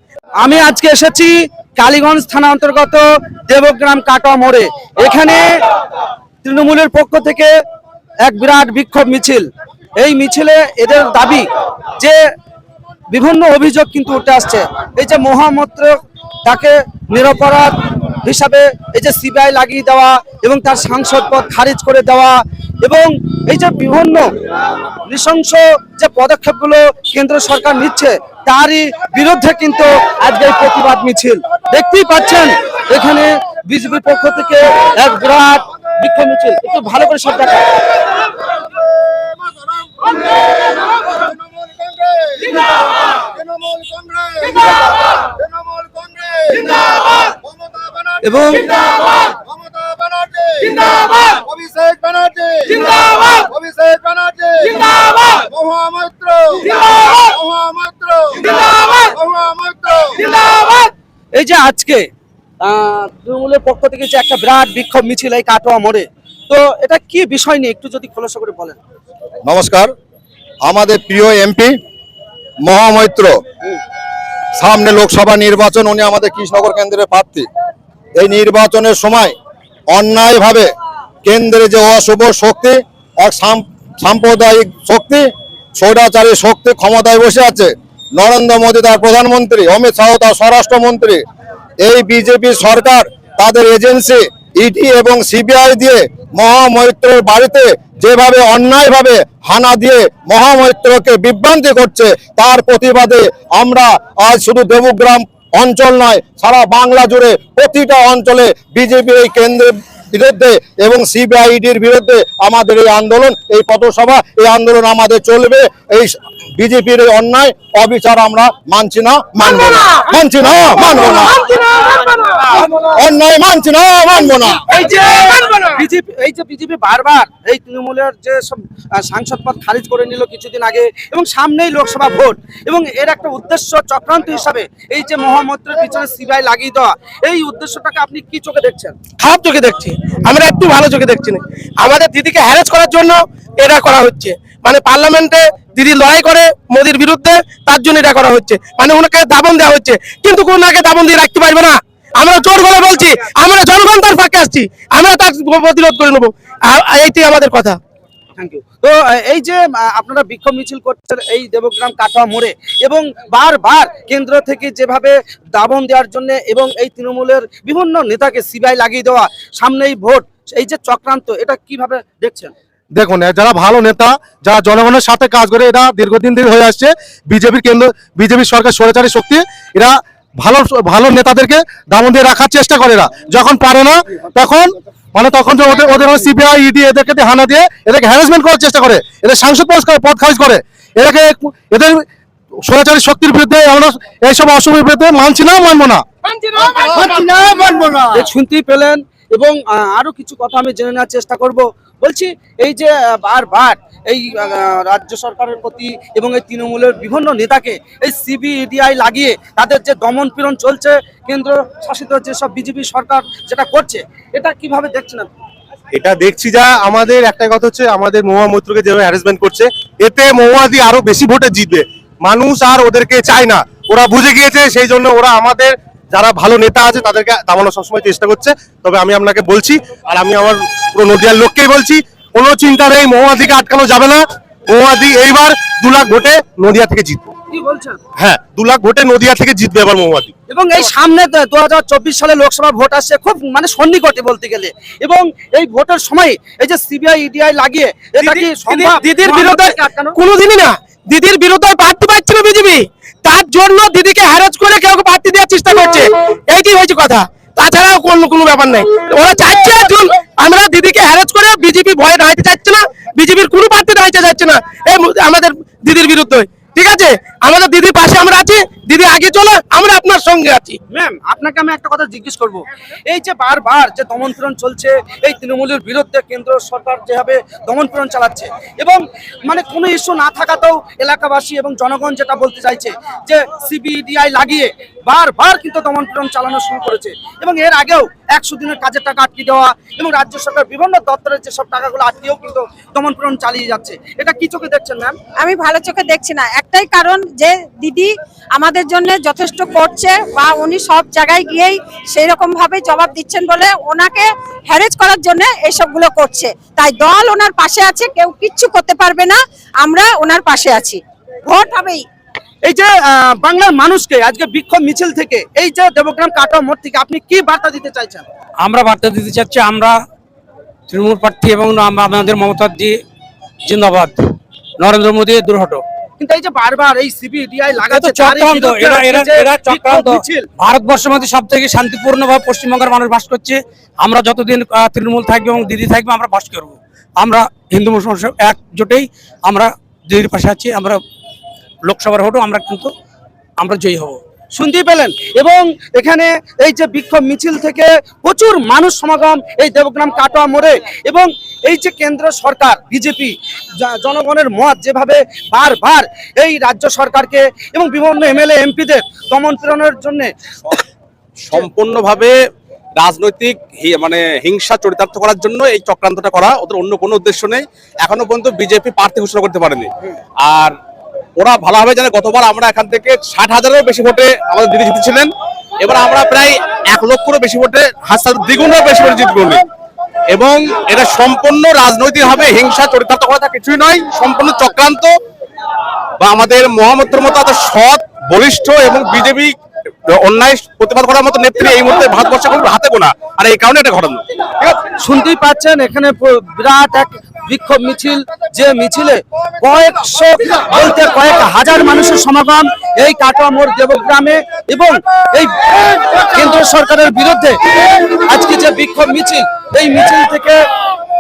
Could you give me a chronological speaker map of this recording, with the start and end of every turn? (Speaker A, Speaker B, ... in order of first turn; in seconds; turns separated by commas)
Speaker A: 0.4-5.5, Speaker A: 6.4-7.5, Speaker A: 8.2-11.5, Speaker A: 13.1-24.3, Speaker A: 25.1-37.7, Speaker B: 39.0-42.6, Speaker B: 43.2-48.2, Speaker A: 48.2-48.7, Speaker B: 49.1-60.3, Speaker A: 61.3-62.1, Speaker A: 62.6-68.8, Speaker B: 69.4-69.9, Speaker B: 70.6-71.8, Speaker B: 72.6-73.3, Speaker B: 74.6-77.5, Speaker B: 78.2-79.3, Speaker B: 79.9-80.7, Speaker B: 81.2-91.2, Speaker B: 91.8-121.5, Speaker A: 121.7-122.5, Speaker B: 122.7-124.7, Speaker A: 124.7-138.9, Speaker C: 139.2-157.8, Speaker A: 158.4-172.5, Speaker D: 172.9-192.0, Speaker D: 192.7-196.1, Speaker A: 198.1-215.3, Speaker D: 215.9-237.3, Speaker A: 237.5-238.0, Speaker D: 238.2-240.3, Speaker A: 240.5-250.2, Speaker C: 248.2-270.8, Speaker A: 270.9-295.2, Speaker E: 295.4-312.0, Speaker A: 312.6-318.3, Speaker F: 318.6-320.0, Speaker F: 320.9-323.0, Speaker F: 323.6-324.2, Speaker F: 324.8-325.8, Speaker A: 326.2-330.5, Speaker F: 327.9-341.0, Speaker F: 341.8-342.9, Speaker F: 343.6-344.2, Speaker A: 344.5-360.3, Speaker G: 361.4-362.3, Speaker G: 362.9-370.8, Speaker G: 371.4-379.6, Speaker G: 380.3-385.1, Speaker G: 386.2-389.6, Speaker G: 390.1-394.2, Speaker A: 394.9-407.6, Speaker A: 408.1-410.6